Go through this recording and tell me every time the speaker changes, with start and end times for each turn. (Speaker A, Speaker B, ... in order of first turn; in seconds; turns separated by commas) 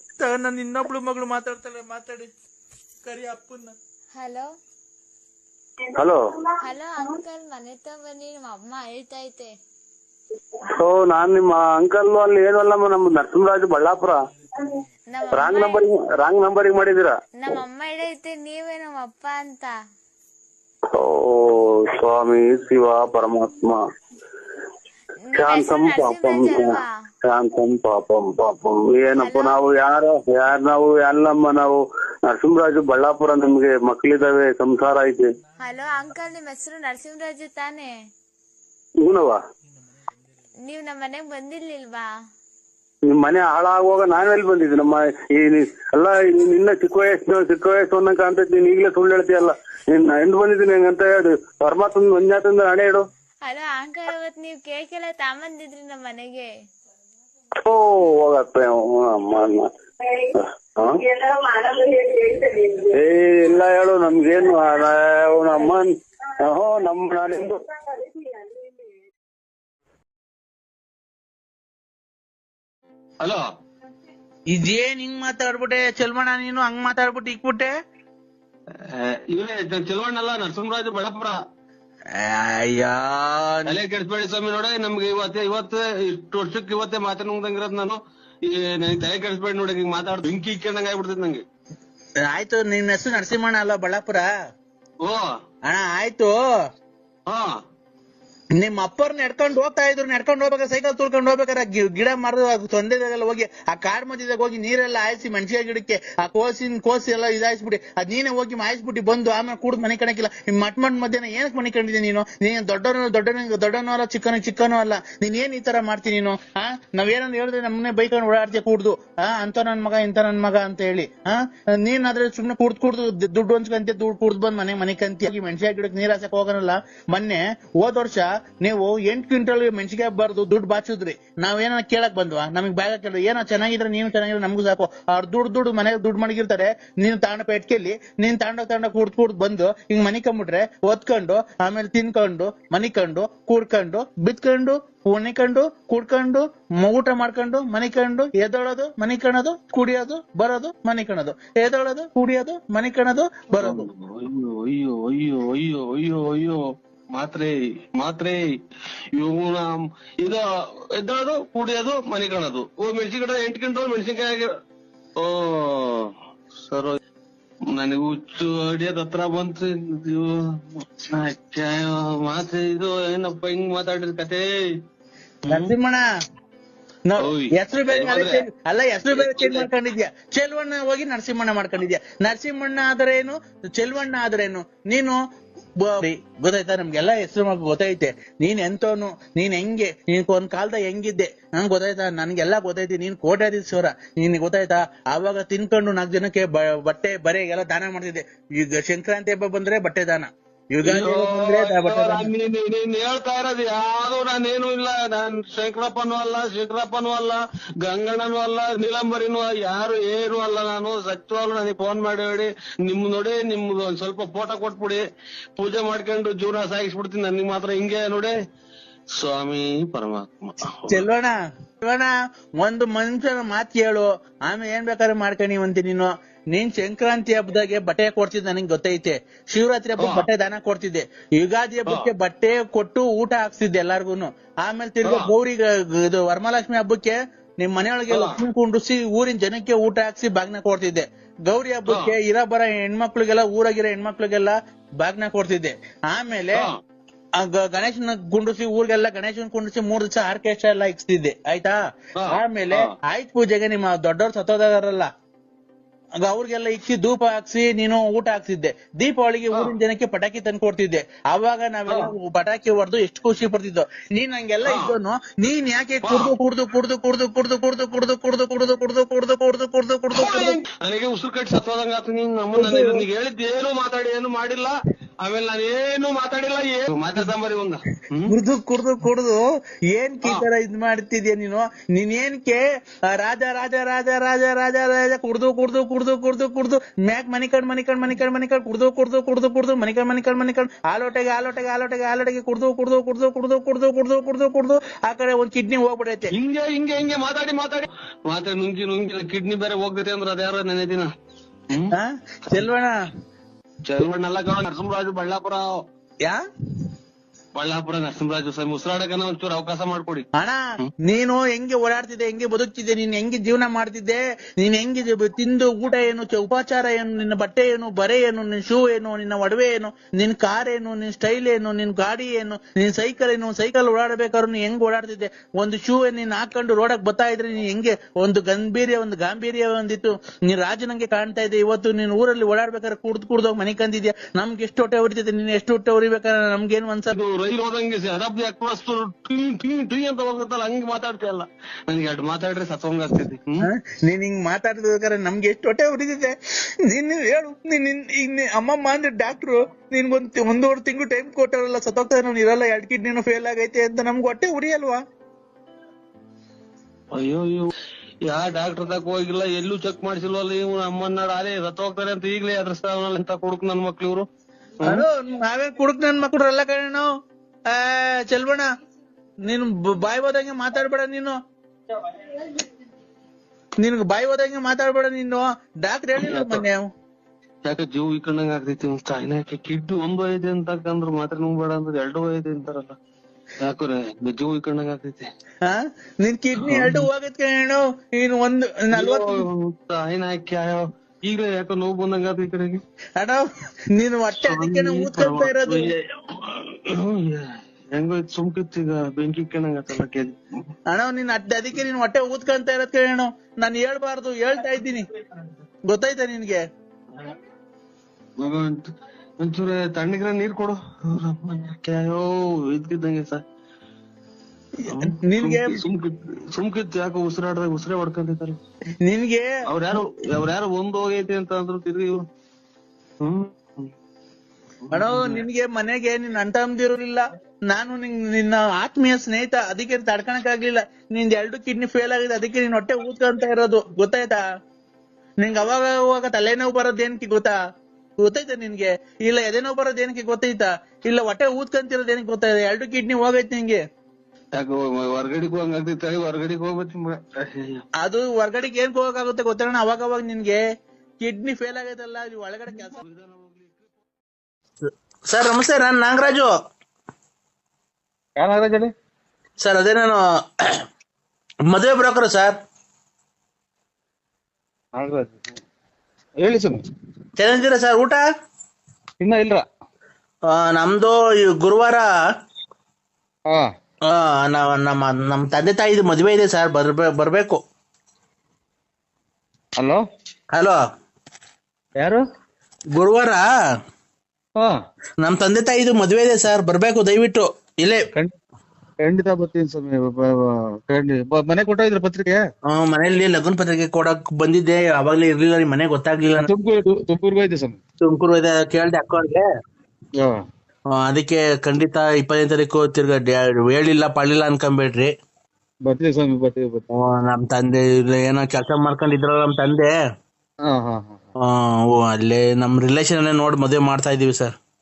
Speaker A: 0.2-2.3, Speaker A: 3.0-3.7, Speaker B: 4.1-4.5, Speaker C: 6.0-6.2, Speaker B: 6.6-9.5, Speaker C: 10.8-14.2, Speaker B: 15.1-15.8, Speaker C: 15.3-17.2, Speaker B: 17.4-19.7, Speaker C: 20.9-23.8, Speaker B: 25.3-26.9, Speaker C: 25.3-35.3, Speaker B: 29.1-29.8, Speaker B: 35.6-37.9, Speaker C: 39.0-39.4, Speaker B: 40.6-42.1, Speaker C: 43.0-53.1, Speaker B: 53.4-56.5, Speaker C: 57.6-59.7, Speaker C: 60.4-61.0, Speaker C: 62.9-65.9, Speaker C: 66.4-67.6, Speaker A: 74.5-77.7, Speaker D: 78.9-81.4, Speaker A: 82.2-83.7, Speaker D: 83.7-91.4, Speaker A: 92.3-94.2, Speaker A: 95.7-96.3, Speaker D: 97.3-97.5, Speaker A: 98.6-153.8, Speaker D: 153.6-156.6, Speaker D: 157.1-158.4, Speaker D: 159.1-164.5, Speaker D: 165.2-166.0, Speaker D: 166.6-167.0, Speaker D: 167.7-174.5, Speaker A: 175.5-176.0, Speaker A: 177.1-185.2, Speaker D: 177.2-178.4, Speaker D: 179.1-179.7, Speaker A: 185.8-202.3, Speaker D: 200.8-215.0, Speaker D: 215.6-218.3, Speaker D: 219.1-221.0, Speaker A: 220.9-222.1, Speaker A: 222.6-246.7, Speaker D: 230.0-230.3, Speaker D: 235.0-235.3, Speaker D: 238.1-238.4, Speaker D: 241.9-242.1, Speaker A: 247.4-251.7, Speaker D: 252.2-252.9, Speaker A: 252.3-255.1, Speaker A: 256.2-270.6, Speaker D: 264.6-264.9, Speaker D: 266.0-266.3, Speaker D: 270.1-278.3, Speaker A: 272.5-273.0, Speaker A: 278.3-279.4, Speaker A: 279.9-296.3, Speaker D: 296.3-301.1, Speaker A: 301.9-302.9, Speaker D: 303.8-305.8, Speaker D: 307.5-310.3, Speaker A: 310.4-337.1, Speaker D: 337.1-343.6, Speaker A: 343.7-346.3, Speaker A: 346.9-355.0, Speaker D: 357.1-357.7, Speaker D: 358.2-364.3, Speaker A: 364.8-367.1, Speaker A: 367.7-368.6, Speaker A: 369.5-371.3, Speaker A: 373.8-376.9, Speaker D: 376.2-376.6, Speaker D: 377.6-383.0, Speaker D: 383.6-385.3, Speaker A: 385.6-389.3, Speaker D: 386.6-387.0, Speaker D: 388.9-392.8, Speaker A: 393.9-395.9, Speaker D: 394.5-400.4, Speaker A: 400.9-405.0, Speaker A: 405.9-406.6, Speaker D: 408.4-408.9, Speaker D: 409.4-413.4, Speaker D: 414.9-418.6, Speaker A: 414.9-415.8, Speaker A: 419.1-419.5, Speaker D: 419.7-422.2, Speaker D: 423.2-423.9, Speaker D: 424.9-425.4, Speaker A: 424.9-434.4, Speaker A: 435.4-437.5, Speaker A: 438.2-443.8, Speaker D: 444.5-447.8, Speaker A: 448.0-450.6, Speaker A: 451.2-453.0, Speaker D: 453.0-453.9, Speaker A: 455.3-456.5, Speaker E: 458.4-458.9, Speaker A: 459.6-460.2, Speaker A: 461.7-462.5, Speaker E: 464.9-465.5, Speaker E: 466.4-466.8, Speaker A: 467.4-468.2, Speaker E: 469.2-469.6, Speaker A: 470.5-472.0, Speaker A: 474.1-477.6, Speaker E: 479.8-480.0, Speaker E: 482.0-482.2, Speaker A: 482.9-483.4, Speaker A: 485.2-488.0, Speaker E: 489.0-492.4, Speaker A: 492.7-496.4, Speaker E: 496.3-497.8, Speaker A: 498.0-499.4, Speaker A: 501.0-505.1, Speaker E: 505.8-506.8, Speaker A: 506.9-509.9, Speaker E: 510.6-511.2, Speaker A: 511.6-514.5